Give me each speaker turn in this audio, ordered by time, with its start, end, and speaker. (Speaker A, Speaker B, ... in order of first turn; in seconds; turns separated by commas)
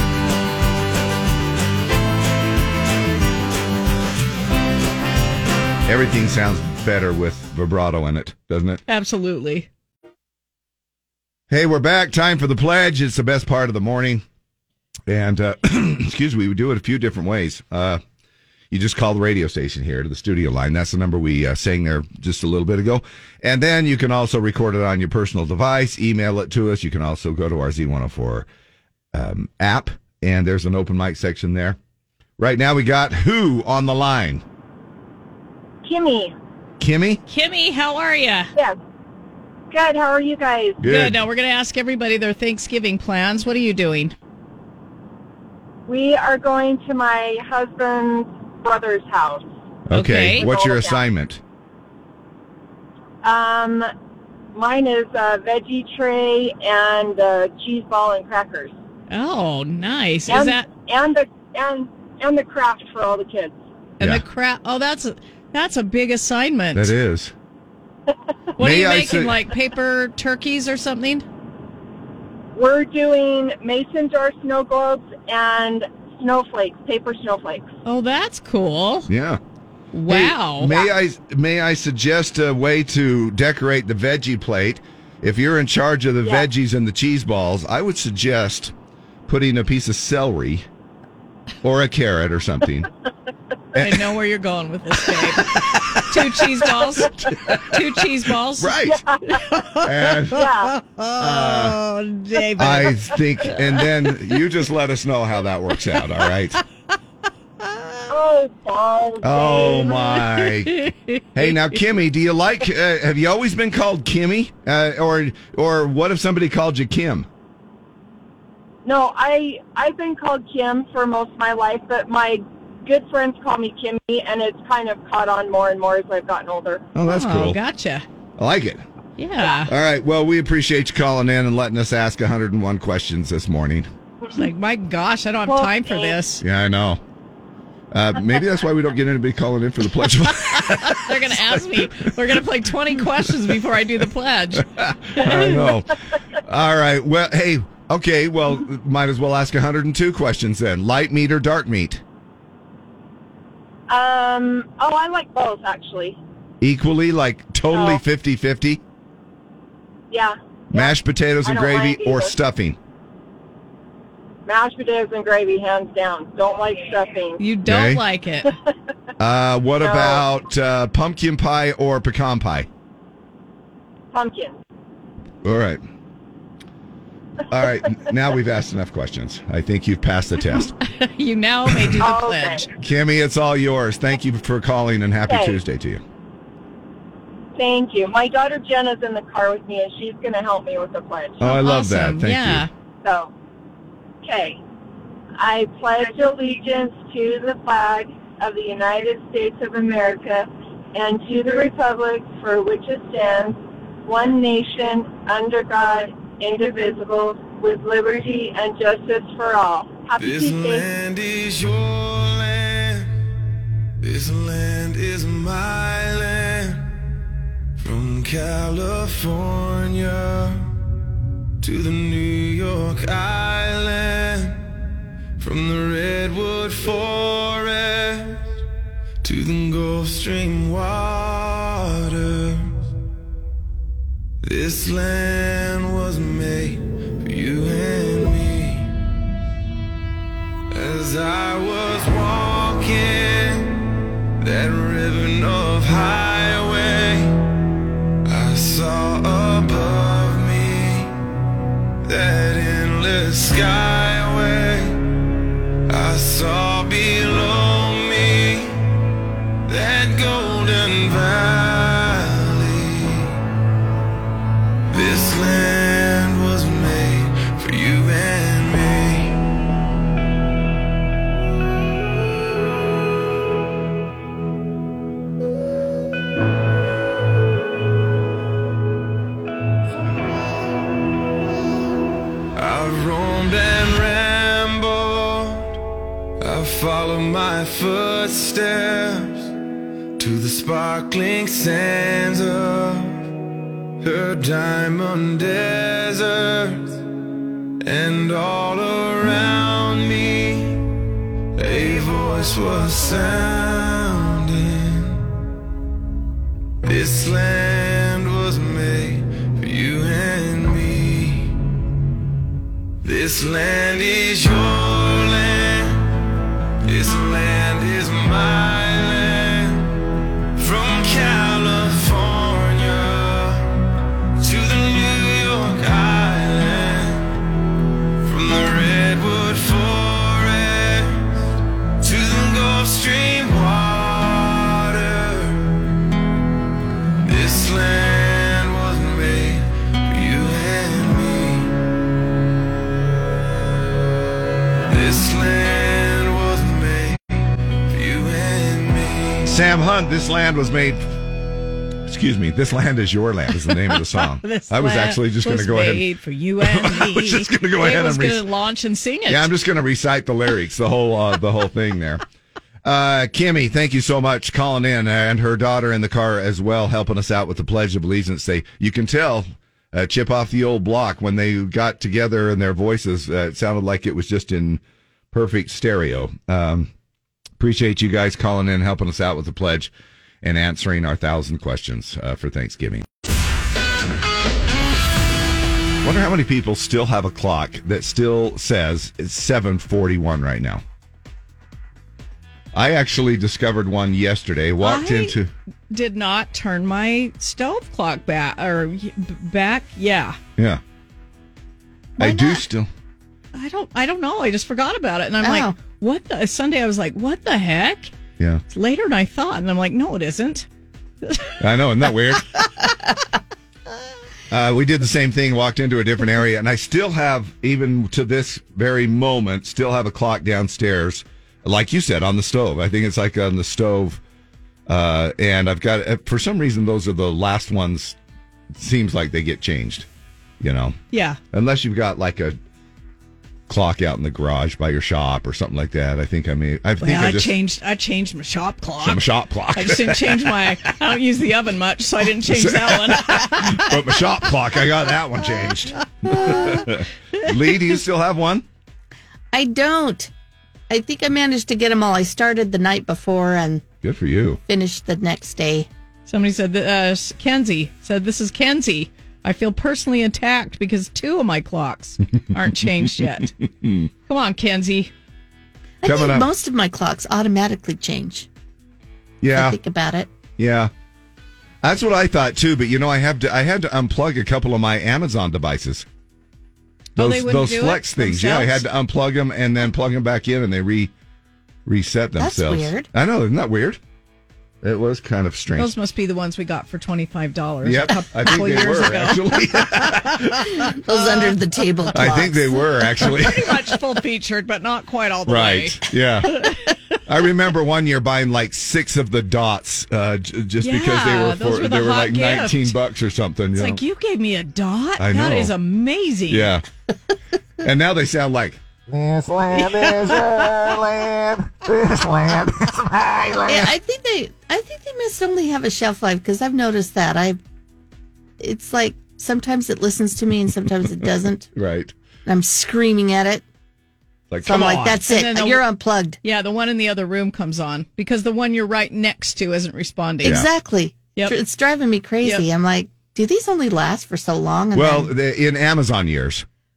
Speaker A: 5.9-8.8, Speaker B: 8.9-9.7, Speaker A: 11.5-14.2, Speaker A: 15.1-18.0, Speaker A: 18.7-28.5, Speaker A: 29.1-31.8, Speaker A: 32.4-34.4, Speaker C: 35.8-36.3, Speaker A: 36.8-37.2, Speaker B: 37.3-38.5, Speaker C: 39.7-40.8, Speaker A: 40.8-41.2, Speaker B: 40.8-44.1, Speaker C: 45.9-49.5, Speaker A: 49.9-51.4, Speaker B: 49.9-50.5, Speaker C: 50.4-51.0, Speaker C: 53.2-53.9, Speaker C: 54.5-58.7, Speaker B: 59.1-60.7, Speaker C: 60.3-63.5, Speaker B: 64.0-66.9, Speaker A: 66.7-67.3, Speaker B: 68.6-71.2, Speaker A: 68.6-69.4, Speaker C: 72.5-77.7, Speaker B: 77.8-79.1, Speaker A: 79.1-79.4, Speaker B: 79.9-80.7, Speaker A: 80.1-88.7, Speaker A: 89.3-90.7, Speaker A: 91.6-92.9, Speaker A: 93.7-94.0, Speaker B: 93.8-98.8, Speaker A: 95.7-96.0, Speaker A: 97.1-97.7, Speaker A: 98.6-99.0, Speaker C: 99.1-99.4, Speaker B: 99.4-103.0, Speaker A: 99.8-100.4, Speaker C: 100.3-100.7, Speaker A: 101.2-101.8, Speaker A: 102.6-106.6, Speaker C: 108.1-110.0, Speaker A: 109.2-110.8, Speaker A: 111.3-117.3, Speaker C: 118.8-126.8, Speaker A: 126.9-127.6, Speaker B: 127.0-128.0, Speaker A: 128.4-128.8, Speaker B: 129.2-129.7, Speaker A: 129.7-133.9, Speaker B: 134.3-136.4, Speaker C: 135.5-136.2, Speaker A: 136.4-137.0, Speaker A: 137.9-142.1, Speaker B: 140.5-144.7, Speaker A: 144.7-152.0, Speaker B: 145.2-145.4, Speaker C: 153.9-156.2, Speaker A: 156.6-158.8, Speaker C: 157.7-158.0, Speaker C: 160.1-160.9, Speaker A: 160.7-162.8, Speaker C: 161.4-162.3, Speaker C: 164.4-167.4, Speaker B: 167.4-168.5, Speaker A: 167.7-168.0, Speaker A: 169.2-172.7, Speaker C: 169.8-170.2, Speaker C: 174.1-174.6, Speaker A: 175.4-175.8, Speaker A: 177.5-180.7, Speaker B: 180.8-182.7, Speaker C: 182.0-182.7, Speaker A: 182.8-186.0, Speaker C: 185.3-185.6, Speaker C: 187.6-191.4, Speaker A: 191.4-192.7, Speaker B: 191.4-192.7, Speaker C: 193.0-193.3, Speaker C: 194.2-194.6, Speaker C: 195.4-210.8, Speaker D: 210.2-213.1, Speaker D: 214.0-216.9, Speaker D: 217.8-220.7, Speaker D: 221.6-224.7, Speaker D: 225.4-228.5, Speaker D: 229.2-232.8, Speaker D: 234.4-238.9, Speaker D: 240.7-243.8, Speaker D: 244.4-247.4, Speaker D: 248.2-251.1, Speaker D: 252.1-255.0, Speaker D: 255.9-258.8, Speaker D: 259.7-263.4, Speaker D: 264.9-269.4, Speaker D: 282.6-285.8, Speaker D: 286.4-289.5, Speaker D: 290.2-293.2, Speaker D: 294.0-297.0, Speaker D: 297.8-300.8, Speaker D: 301.6-305.2, Speaker D: 306.8-311.5, Speaker D: 313.0-316.1, Speaker D: 316.8-319.9, Speaker D: 320.6-323.7, Speaker D: 324.4-327.3, Speaker D: 328.2-331.4, Speaker D: 332.0-335.8, Speaker D: 337.2-341.7, Speaker D: 344.9-347.3, Speaker D: 347.9-349.5, Speaker A: 349.5-351.1, Speaker A: 352.1-356.0, Speaker B: 353.7-359.5, Speaker A: 356.6-358.4, Speaker A: 359.3-362.2, Speaker A: 362.8-374.8, Speaker A: 375.3-376.9, Speaker A: 377.6-379.9, Speaker A: 380.4-383.1, Speaker A: 386.0-390.8, Speaker A: 392.7-395.5, Speaker B: 394.8-395.4, Speaker B: 395.9-400.4, Speaker A: 402.2-402.9, Speaker E: 402.2-402.6, Speaker B: 403.5-408.1, Speaker E: 405.4-405.7, Speaker B: 408.7-410.7, Speaker B: 411.2-411.5, Speaker A: 411.6-412.5, Speaker A: 414.5-424.2, Speaker A: 424.9-428.1, Speaker A: 428.7-430.1, Speaker A: 430.6-431.0, Speaker B: 431.1-431.4, Speaker A: 431.5-432.6, Speaker A: 433.7-437.5, Speaker B: 437.0-443.8, Speaker A: 439.0-440.6, Speaker A: 442.5-448.6, Speaker E: 449.5-450.3, Speaker E: 450.9-453.8, Speaker A: 454.0-454.6, Speaker E: 454.7-455.9, Speaker B: 456.3-463.5, Speaker A: 463.8-464.1, Speaker B: 464.3-465.1, Speaker E: 466.0-468.5, Speaker A: 466.0-466.5, Speaker A: 469.4-469.8, Speaker E: 469.5-470.3, Speaker A: 470.6-470.9, Speaker A: 471.8-476.0, Speaker B: 477.2-478.8, Speaker A: 477.2-481.1, Speaker A: 481.9-484.0, Speaker E: 482.4-483.1, Speaker A: 484.8-485.9, Speaker B: 485.8-489.6, Speaker A: 487.8-490.8, Speaker E: 491.0-492.8, Speaker A: 492.1-493.7, Speaker B: 493.2-496.8, Speaker A: 495.5-496.6, Speaker A: 497.3-504.0, Speaker B: 500.8-502.9, Speaker B: 503.7-506.7, Speaker A: 505.2-505.7, Speaker A: 506.5-506.8, Speaker A: 507.8-513.9, Speaker B: 509.8-510.5, Speaker E: 513.6-517.6, Speaker E: 518.6-521.7, Speaker A: 521.7-522.1, Speaker E: 522.5-523.6, Speaker A: 524.5-525.2, Speaker E: 524.6-526.4, Speaker B: 525.2-525.8, Speaker B: 526.4-530.6, Speaker E: 530.4-535.3, Speaker A: 534.9-536.6